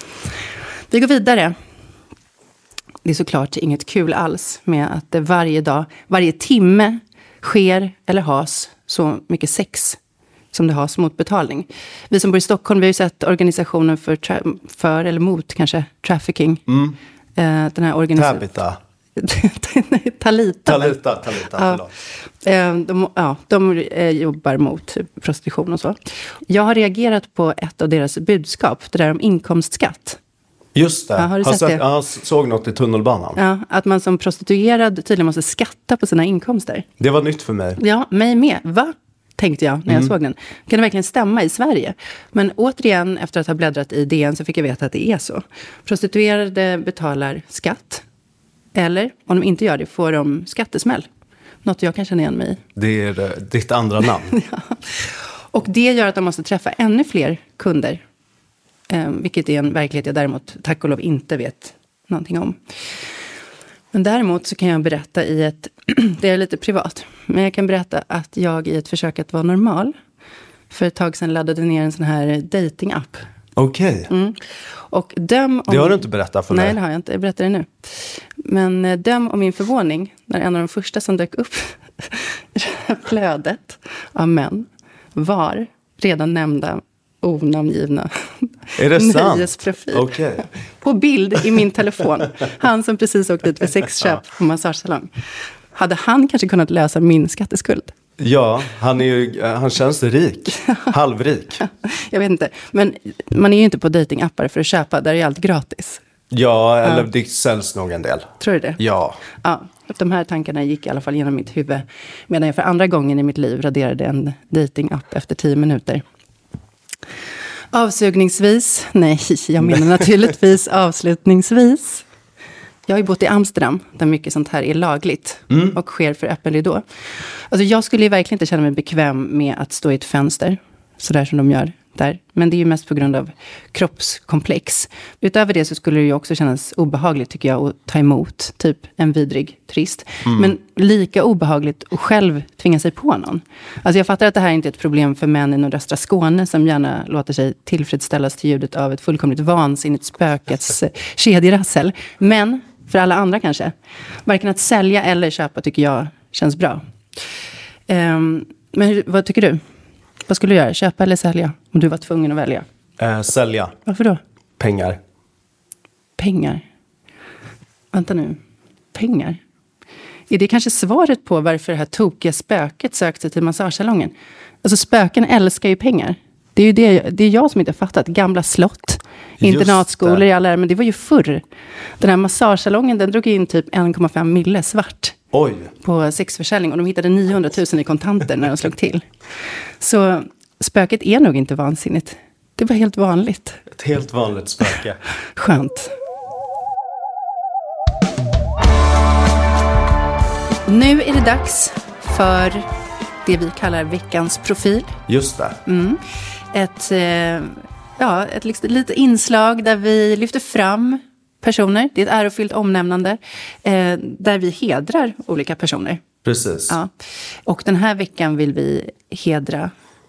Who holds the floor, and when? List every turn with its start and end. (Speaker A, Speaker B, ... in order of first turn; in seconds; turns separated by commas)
Speaker A: 0.9-1.6, Speaker A: 3.0-10.0, Speaker A: 10.5-16.6, Speaker B: 16.7-17.0, Speaker A: 17.4-18.6, Speaker B: 18.2-18.8, Speaker A: 19.2-21.0, Speaker B: 20.7-21.9, Speaker A: 21.5-21.8, Speaker A: 22.4-26.0, Speaker A: 26.5-30.2, Speaker B: 30.8-33.4, Speaker A: 31.2-31.8, Speaker A: 33.4-36.9, Speaker B: 37.0-37.8, Speaker A: 37.8-48.0, Speaker A: 48.8-51.1, Speaker A: 51.6-52.6, Speaker B: 52.8-54.4, Speaker A: 54.3-58.0, Speaker A: 58.9-62.6, Speaker A: 63.9-69.9, Speaker A: 70.7-73.2, Speaker B: 73.6-74.1, Speaker A: 74.1-74.4, Speaker A: 74.9-95.1, Speaker B: 75.7-76.8, Speaker B: 88.8-90.5, Speaker A: 95.7-97.9, Speaker B: 98.2-101.6, Speaker A: 100.5-100.9, Speaker A: 101.6-106.0, Speaker B: 106.3-109.2, Speaker A: 108.4-108.8, Speaker A: 109.4-116.0, Speaker A: 117.7-122.0, Speaker A: 122.9-126.8, Speaker A: 127.5-153.7, Speaker B: 140.2-140.5, Speaker A: 154.3-156.8, Speaker A: 157.9-159.6, Speaker A: 160.3-162.7, Speaker B: 163.0-163.8, Speaker A: 163.9-164.2, Speaker B: 164.6-165.0, Speaker A: 166.2-166.7, Speaker A: 167.9-168.4, Speaker A: 168.9-169.4, Speaker A: 170.3-181.4, Speaker B: 179.4-180.2, Speaker A: 182.0-185.2, Speaker B: 185.3-185.7, Speaker A: 185.8-189.1, Speaker A: 189.8-193.6, Speaker B: 193.7-195.0, Speaker A: 195.4-195.9, Speaker A: 200.7-202.7, Speaker A: 203.2-205.0, Speaker B: 205.1-205.6, Speaker A: 205.7-206.0, Speaker A: 206.5-216.0, Speaker B: 216.2-216.8, Speaker A: 217.5-219.7